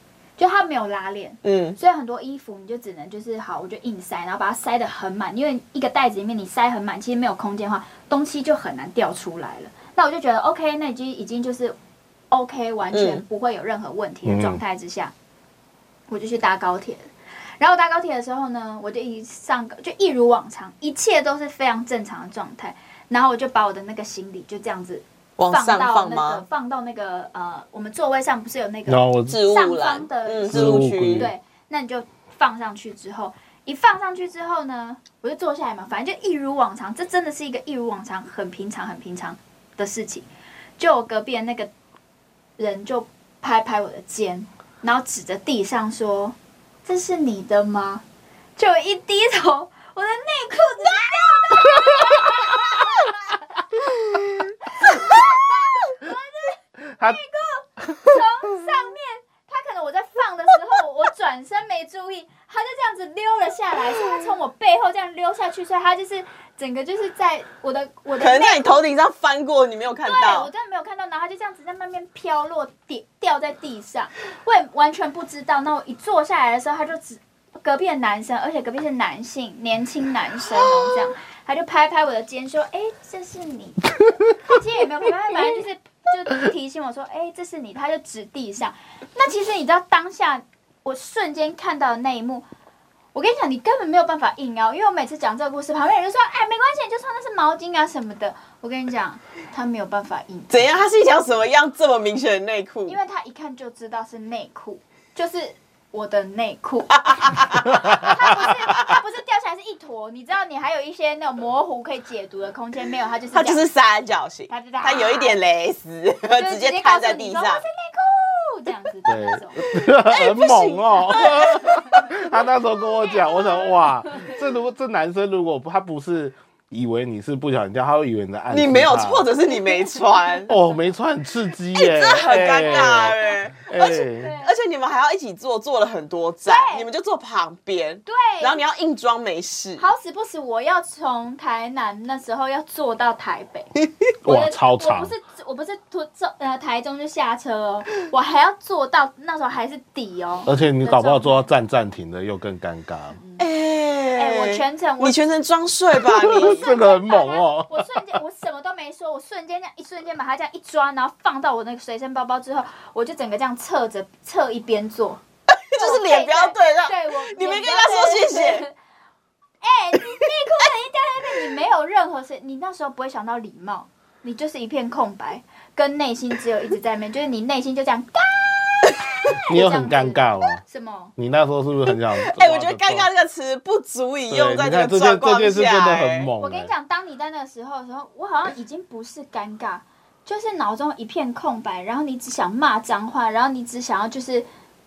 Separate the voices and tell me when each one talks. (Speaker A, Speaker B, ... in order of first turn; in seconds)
Speaker A: 0.4-11.8, 12.3-15.1, 16.1-40.3, 40.8-41.7, 42.6-48.0, 48.6-53.4, 54.8-68.8, 70.0-92.5, 93.1-100.7, 102.9-113.7, 114.5-115.4, 116.3-119.7, 121.1-124.4, 129.5-130.6, 132.3-134.5, 136.5-136.9, 138.1-138.6, 139.8-143.7, 144.2-151.5, 153.2-153.5, 154.2-155.2, 156.3-165.2, 165.8-168.7, 169.6-181.1, 186.4-194.5
Speaker B: 1.4-1.8, 12.9-13.2, 25.4-26.4, 29.3-31.3, 68.2-70.5, 100.5-103.0, 107.0-107.7, 113.3-117.6, 120.1-121.8, 128.5-130.5, 131.8-139.8, 153.4-156.7, 165.5-168.7, 181.9-186.3
Speaker C: 14.3-14.6, 28.9-29.4, 30.5-31.3, 56.9-57.2, 107.9-108.1, 119.1-129.3, 130.5-134.3, 144.2-145.1, 150.5-153.2, 156.0-157.9, 179.5-180.6, 181.2-183.1, 184.3-186.7